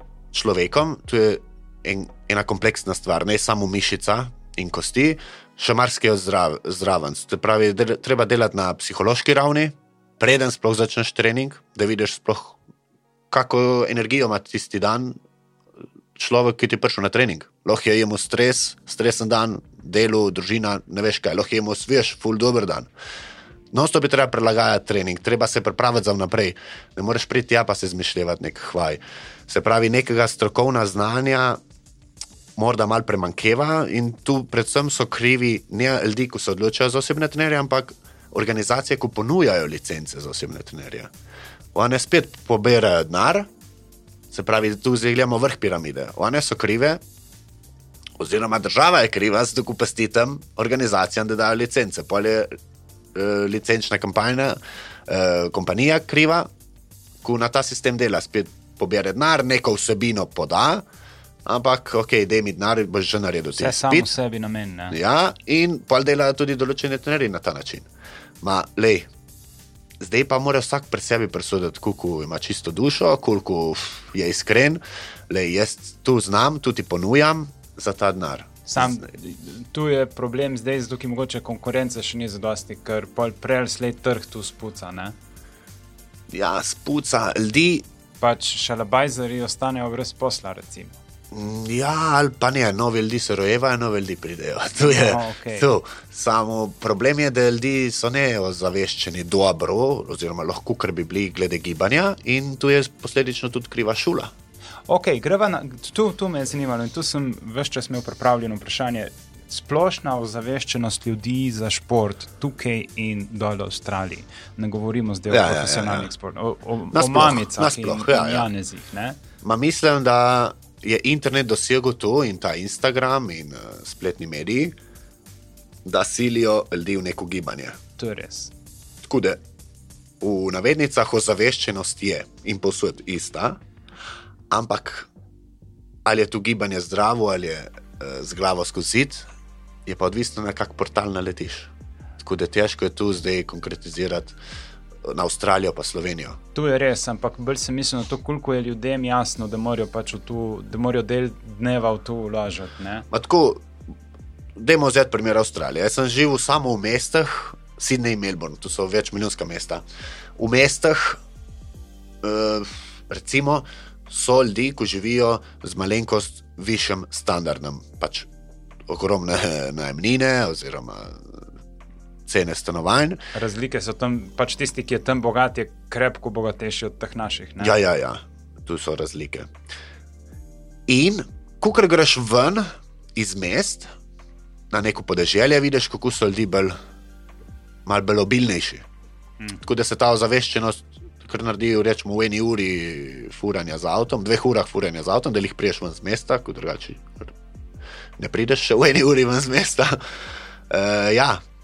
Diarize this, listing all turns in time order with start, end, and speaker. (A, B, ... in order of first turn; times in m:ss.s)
0:00.3-0:12.6 A
0:13.3-0:15.2 A
0:16.2-0:22.9 A
0:23.7-0:31.6 A
0:32.6-0:41.1 A
0:41.7-0:43.5 A
0:44.3-0:47.0 A
0:48.2-0:52.5 A
0:53.1-0:56.5 A
0:57.2-1:00.8 A
1:01.5-1:04.1 A
1:03.6-1:05.0 B
1:04.9-1:07.9 A
1:08.4-1:09.1 A
1:10.0-1:19.0 A
1:18.7-1:25.2 B
1:26.3-1:27.9 A
1:28.2-1:31.0 B
1:31.3-1:44.3 A
1:34.8-1:35.7 B
1:44.9-1:59.2 B
1:55.3-1:56.1 A
1:56.9-1:58.5 A
1:59.4-2:04.7 A
2:05.8-2:07.8 A
2:08.0-2:08.5 B
2:09.0-2:09.4 A
2:10.2-2:13.6 A
2:14.5-2:15.1 A
2:16.0-2:19.2 A
2:19.9-2:24.4 A
2:25.0-2:26.4 A
2:26.5-2:33.1 B
2:33.1-2:33.7 A
2:34.6-2:39.8 A
2:40.4-2:41.2 A
2:42.2-2:48.3 A
2:48.9-2:51.4 A
2:52.3-2:53.2 A
2:53.3-2:57.8 B
2:57.6-2:59.5 A
3:00.9-3:03.9 A
3:04.7-3:06.8 A
3:07.9-3:08.8 A
3:09.6-3:17.3 A
3:18.2-3:20.2 A
3:20.7-3:21.4 A